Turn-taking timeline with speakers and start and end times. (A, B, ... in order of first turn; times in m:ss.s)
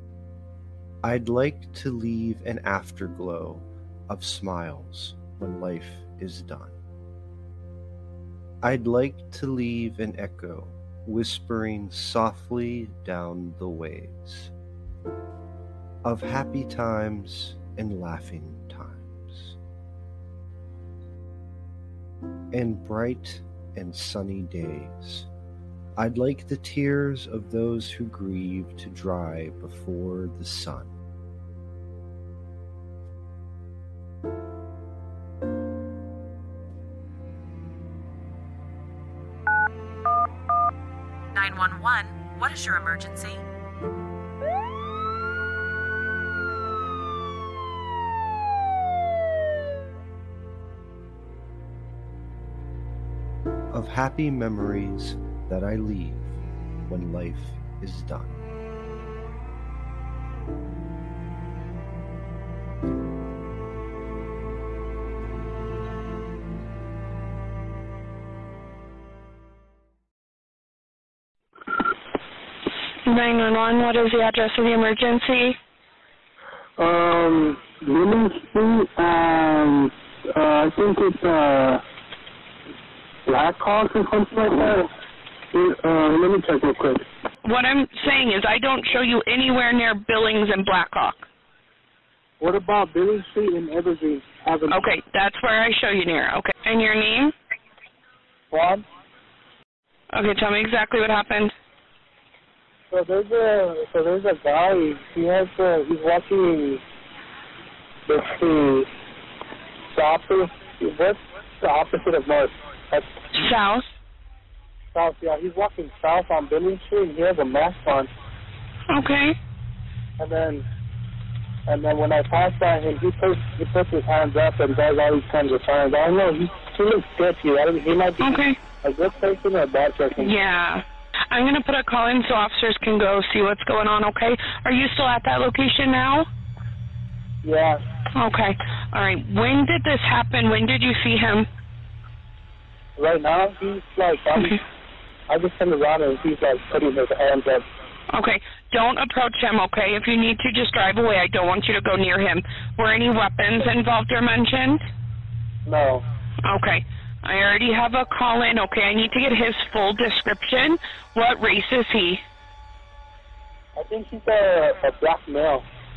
0:01.0-0:06.8 A
0:08.6-0:14.5 A
0:16.0-0:19.6 A
0:22.5-0:25.3 A
0:26.0-0:30.9 A
0:41.3-0:43.4 B
0:53.7-0:56.4 A
0:56.9-0:58.4 A
1:13.1-1:15.6 C
1:16.8-1:21.8 D
1:23.3-1:24.9 D
1:25.5-1:27.0 D
1:27.4-1:31.3 C
1:32.4-1:34.8 D
1:34.7-1:37.3 C
1:38.5-1:38.8 D
1:40.1-1:41.5 C
1:42.9-1:46.8 D
1:48.1-1:48.9 D
1:49.9-1:53.1 D
1:53.4-1:53.8 C
1:54.9-1:58.1 D
1:58.9-1:59.4 C
2:00.2-2:00.6 D
2:01.7-2:10.4 D
2:08.2-2:08.6 C
2:10.2-2:16.3 C
2:17.4-2:17.8 D
2:18.2-2:21.5 C
2:23.0-2:24.6 D
2:25.3-2:27.7 D
2:28.1-2:34.8 C
2:35.7-2:36.0 D
2:36.4-2:42.2 C
2:43.8-2:45.6 D